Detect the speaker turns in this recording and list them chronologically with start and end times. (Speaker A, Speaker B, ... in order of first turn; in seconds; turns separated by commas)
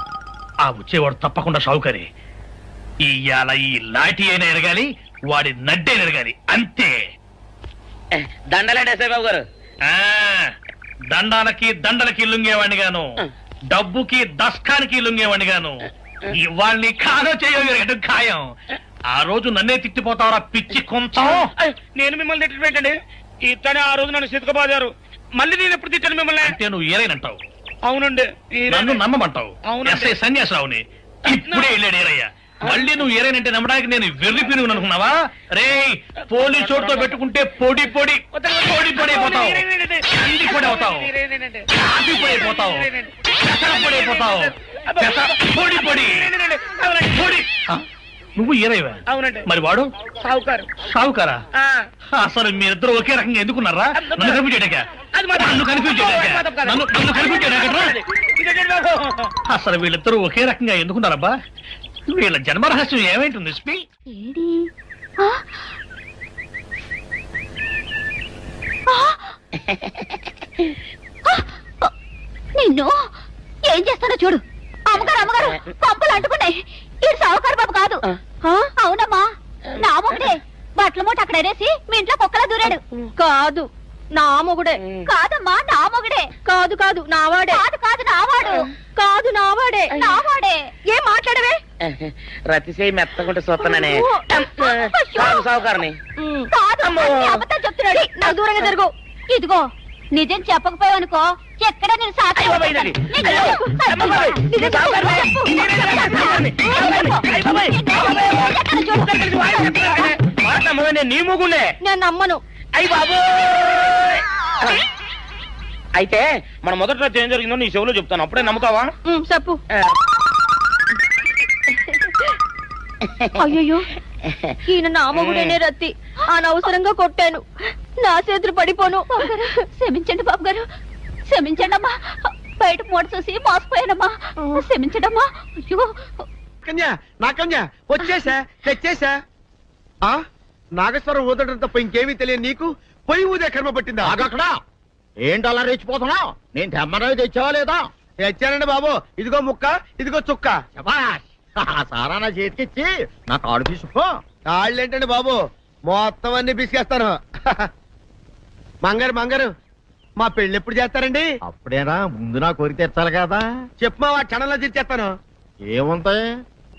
Speaker A: 0.7-2.1, Speaker A: 3.0-6.9, Speaker B: 8.1-9.4, Speaker A: 9.9-10.5, Speaker A: 11.1-13.1, Speaker A: 13.7-18.5, Speaker A: 19.1-21.5, Speaker B: 21.2-26.5, Speaker A: 26.4-27.4, Speaker B: 27.9-29.0, Speaker A: 28.7-41.1, Speaker B: 29.7-30.1, Speaker B: 31.3-31.8, Speaker B: 36.4-37.1, Speaker B: 38.3-47.4, Speaker A: 41.8-42.9, Speaker A: 43.5-46.2, Speaker A: 48.4-49.9, Speaker B: 49.1-49.5, Speaker B: 50.2-50.8, Speaker A: 50.9-51.4, Speaker B: 51.6-51.9, Speaker A: 52.2-54.9, Speaker B: 54.0-54.4, Speaker B: 55.1-59.3, Speaker A: 55.4-57.9, Speaker A: 59.5-61.3, Speaker A: 62.1-63.8, Speaker C: 64.1-65.7, Speaker C: 68.9-69.4, Speaker B: 69.6-70.2, Speaker C: 71.2-71.9, Speaker C: 72.6-73.1, Speaker C: 73.7-78.0, Speaker B: 75.0-75.7, Speaker C: 78.8-82.8, Speaker B: 79.7-80.3, Speaker B: 82.8-83.1, Speaker D: 83.2-84.8, Speaker B: 84.8-85.1, Speaker C: 85.1-86.3, Speaker D: 86.5-87.6, Speaker C: 87.5-88.7, Speaker D: 89.0-89.9, Speaker C: 89.9-90.6, Speaker D: 90.9-91.6, Speaker B: 91.8-96.0, Speaker D: 93.8-94.2, Speaker C: 94.5-95.5, Speaker D: 96.2-96.5, Speaker C: 96.5-97.4, Speaker B: 96.8-97.4, Speaker D: 97.4-98.9, Speaker C: 98.0-98.4, Speaker C: 99.3-104.4, Speaker B: 102.4-111.7, Speaker D: 103.2-103.7, Speaker D: 104.5-105.5, Speaker C: 108.5-108.9, Speaker D: 111.8-112.4, Speaker B: 112.8-114.8, Speaker B: 116.0-118.9, Speaker D: 119.1-119.6, Speaker B: 123.0-123.3, Speaker D: 123.4-123.9, Speaker B: 124.3-124.5, Speaker D: 124.7-127.4, Speaker B: 125.1-125.5, Speaker D: 128.0-129.5, Speaker C: 129.1-130.7, Speaker C: 131.3-136.2, Speaker D: 134.4-134.7, Speaker E: 136.7-139.2, Speaker E: 140.8-144.2, Speaker F: 144.0-144.5, Speaker F: 145.3-149.3, Speaker E: 148.3-148.7, Speaker E: 149.2-150.7, Speaker F: 150.7-154.1, Speaker E: 154.5-155.3, Speaker E: 155.9-157.1, Speaker E: 158.8-159.5, Speaker E: 160.2-161.3, Speaker F: 161.5-163.4, Speaker E: 163.8-165.1, Speaker F: 165.7-166.2